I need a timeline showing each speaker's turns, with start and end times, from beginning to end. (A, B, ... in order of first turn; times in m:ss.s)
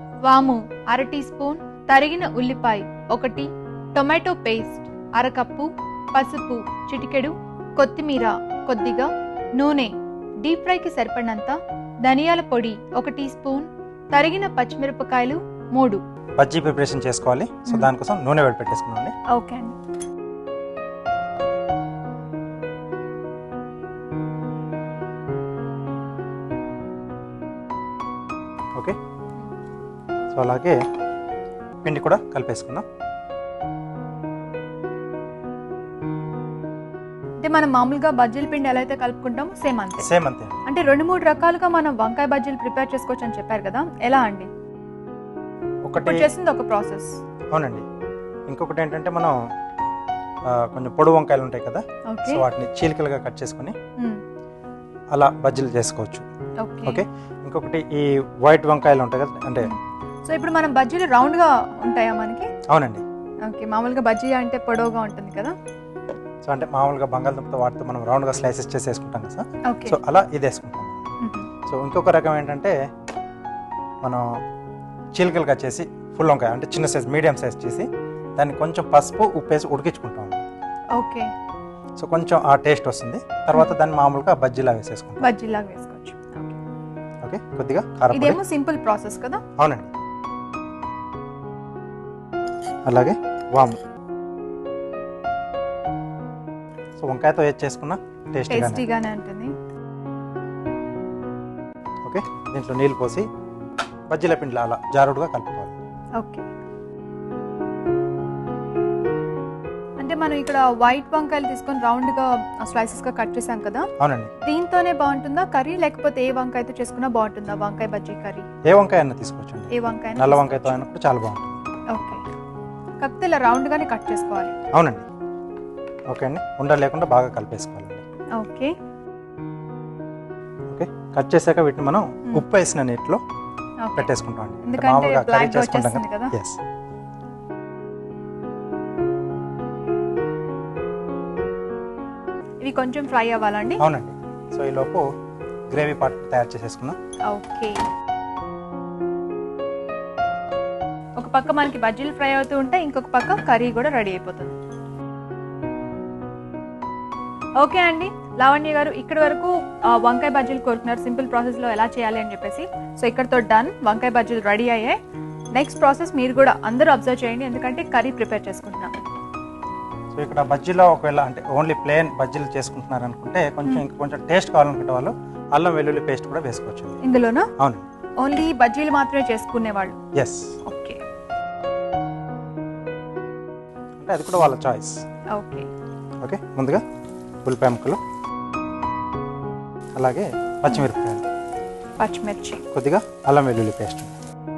0:00.3-0:16.0 A
0:16.4-0:19.1 B
0:19.3-0:19.8 A
0:30.3-0:30.8 B
0:31.8-0:32.8 B
0:37.4-0:40.0 A
0:40.0-0:40.6 B
0:40.7-0:44.5 A
0:45.9-0:46.3 B
0:46.0-0:47.2 A
0:47.5-0:47.8 B
0:48.5-0:49.3 B
0:50.5-0:53.8 B
0:52.1-0:52.4 A
0:55.1-0:56.2 B
0:56.6-0:57.0 A
0:56.9-0:59.7 B
1:00.3-1:02.5 A
1:02.7-1:03.0 B
1:03.4-1:05.5 A
1:06.4-1:11.0 B
1:09.7-1:10.0 A
1:11.2-1:11.5 A
1:11.7-1:12.8 B
1:15.2-1:20.4 B
1:21.0-1:21.3 A
1:22.0-1:25.2 B
1:25.2-1:26.6 A
1:27.2-1:28.4 B
1:28.1-1:29.4 A
1:29.6-1:29.9 B
1:32.9-1:33.8 B
1:37.0-1:38.8 B
1:38.5-1:39.5 A
1:42.1-1:43.2 B
1:44.1-1:45.8 B
1:46.2-1:46.5 A
1:50.0-1:53.8 A
1:54.0-1:54.3 B
1:54.4-1:58.5 A
1:58.7-2:01.6 B
1:59.7-2:00.8 A
2:01.9-2:02.2 A
2:03.0-2:04.6 A
2:04.7-2:05.1 B
2:06.1-2:08.0 B
2:08.4-2:08.7 A
2:10.7-2:13.2 B
2:13.8-2:14.1 A
2:14.0-2:16.6 B
2:14.7-2:16.3 A
2:22.6-2:23.8 A
2:23.8-2:25.0 B
2:25.7-2:27.0 B
2:27.3-2:27.8 A
2:31.2-2:34.6 A
2:37.6-2:45.0 A
2:45.6-2:49.0 A
2:50.2-2:57.0 B
2:57.0-2:57.5 A
2:57.6-2:57.8 B
2:58.2-3:00.0 A
3:00.7-3:01.0 A
3:04.0-3:04.9 B
3:05.3-3:05.7 A
3:06.2-3:06.8 B
3:07.4-3:08.0 B
3:10.0-3:11.2 B
3:12.0-3:12.6 A
3:12.7-3:14.1 B